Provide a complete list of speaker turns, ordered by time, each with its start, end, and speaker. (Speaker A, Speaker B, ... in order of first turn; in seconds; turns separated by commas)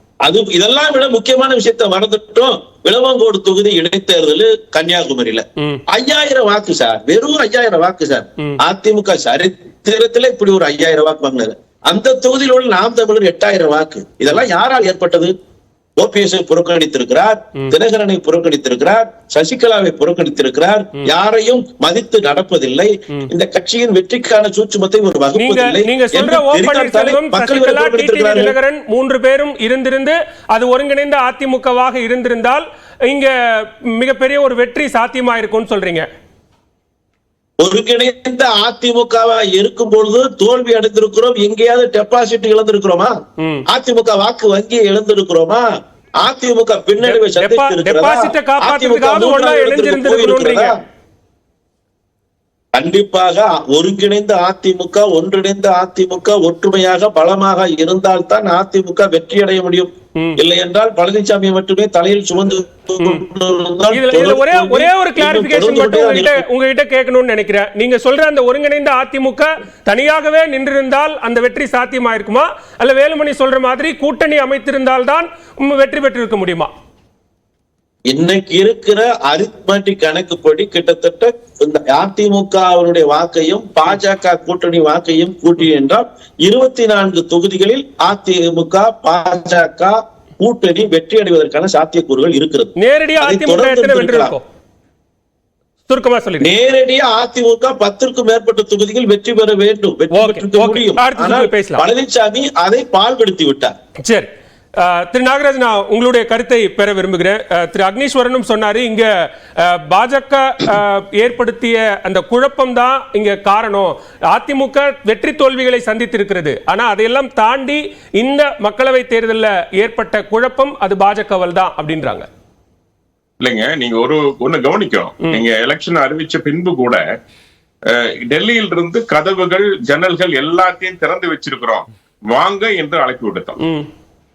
Speaker A: 0.2-15.3, Speaker A: 16.0-28.5, Speaker B: 25.4-36.1, Speaker A: 37.6-43.1, Speaker B: 43.4-43.6, Speaker A: 43.7-45.6, Speaker A: 46.2-50.8, Speaker B: 47.0-50.7, Speaker A: 52.7-66.4, Speaker B: 63.9-76.7, Speaker A: 78.1-94.3, Speaker B: 92.8-94.4, Speaker B: 95.9-96.5, Speaker A: 96.4-103.7, Speaker B: 100.1-101.8, Speaker B: 104.0-122.3, Speaker C: 123.4-127.0, Speaker C: 127.9-133.6, Speaker B: 133.6-133.9